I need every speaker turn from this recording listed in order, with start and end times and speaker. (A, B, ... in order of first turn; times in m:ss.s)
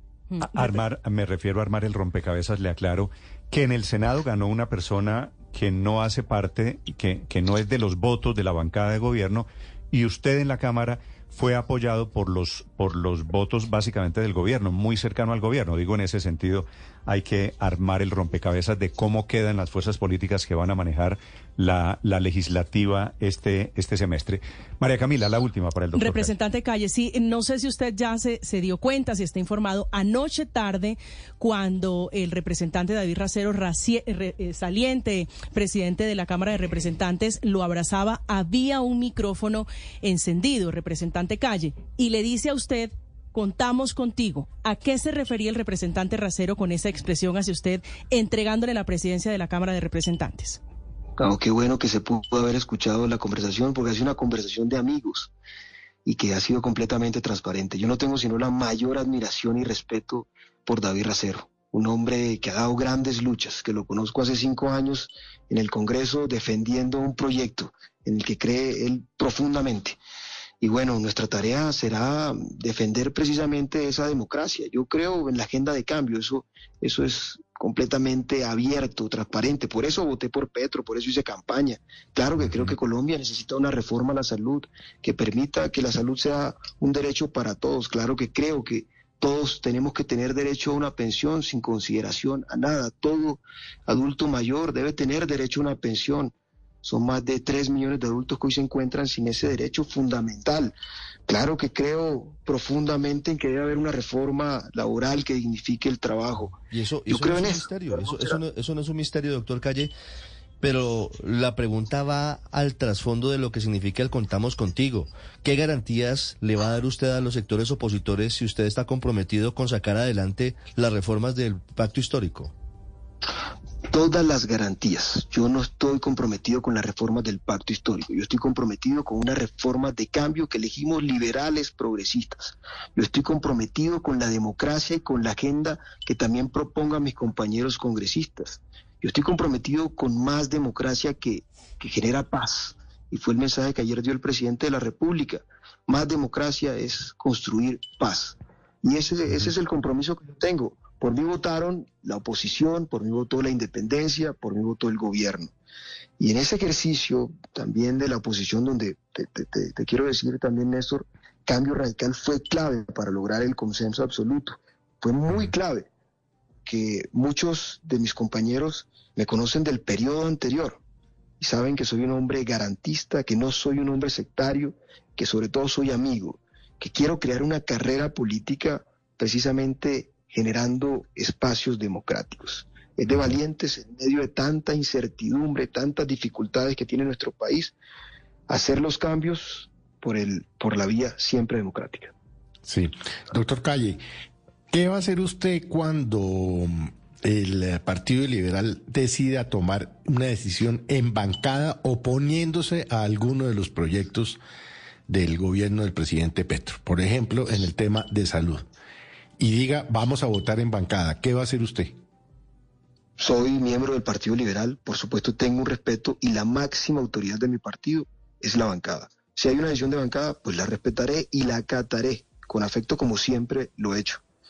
0:00.3-0:00.8 A
0:00.4-0:26.3 B
0:25.9-0:50.6 A
0:51.2-0:55.3 C
0:56.0-1:10.0 C
1:10.6-1:40.8 C
1:22.4-1:22.7 B
1:41.3-1:46.6 C
1:46.6-1:49.9 D
1:47.1-1:48.4 C
1:50.6-2:02.5 D
2:03.9-2:35.5 C
2:36.2-2:45.9 C
2:46.6-2:50.8 C
2:51.4-3:07.8 C
3:08.5-3:12.1 C
3:12.7-3:14.0 E
3:14.7-3:24.4 E
3:25.1-3:28.6 E
3:29.4-3:32.0 E
3:33.2-3:44.2 C